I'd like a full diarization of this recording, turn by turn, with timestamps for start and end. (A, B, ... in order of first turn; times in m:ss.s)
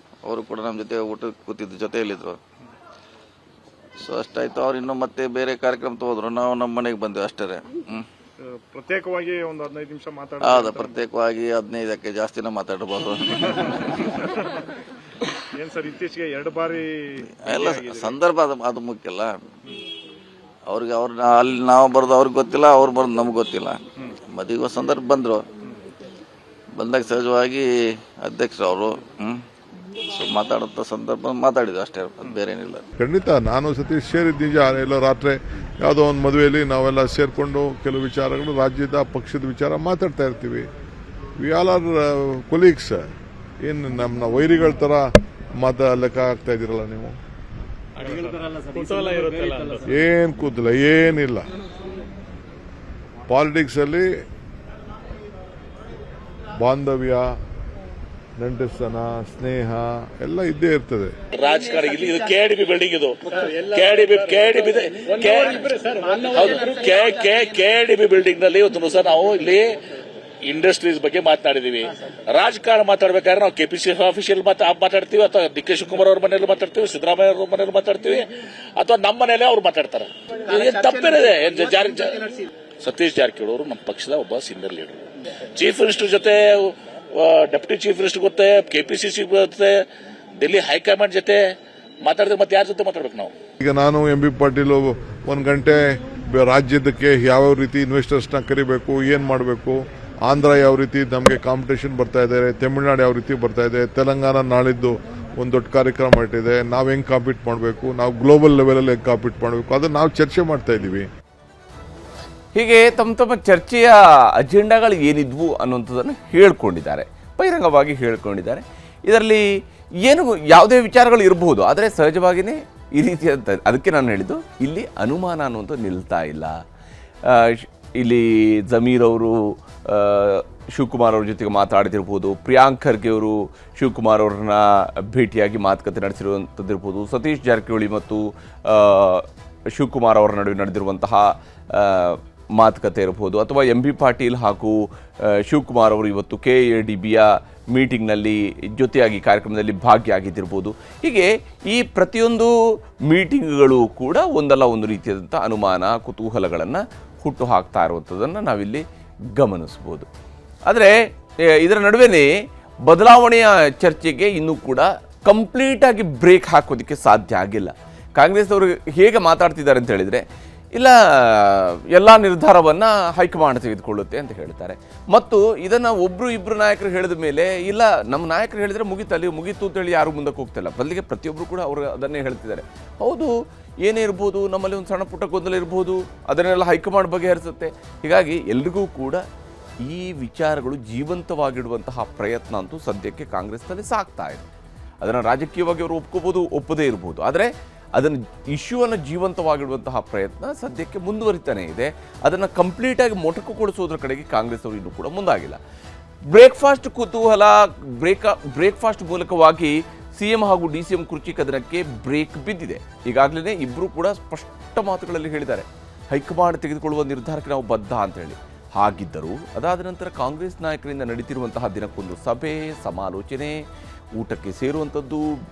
0:00.2-0:02.4 A
0:04.0-0:08.1 A
0:08.5-0:11.0 B
0:10.4-0:14.0 A
0:15.6-0:18.2 B
0:17.4-0:19.4 A
0:20.7-0:23.8 A
0:24.3-0:25.5 A
0:26.8-0:27.7 A
0:28.2-0:29.4 A
0:30.1-0:32.8 A
0:33.0-0:40.7 C
0:41.4-0:47.2 C
0:48.0-0:49.8 B
0:49.9-0:51.5 C
0:53.3-0:54.1 C
0:56.6-0:57.4 C
0:58.4-1:01.1 C
1:01.3-1:09.8 D
1:10.4-1:29.9 D
1:30.4-1:33.3 D
1:33.6-1:51.1 C
1:52.5-1:59.5 E
2:00.0-2:06.6 E
2:07.3-2:32.5 E
2:33.1-2:38.8 E
2:39.3-2:40.1 E
2:40.7-2:42.3 E
2:42.9-2:50.2 E
2:50.8-3:09.2 E
3:09.8-3:14.5 E
3:15.0-3:25.6 E
3:26.3-3:43.6 E
3:44.2-3:45.4 E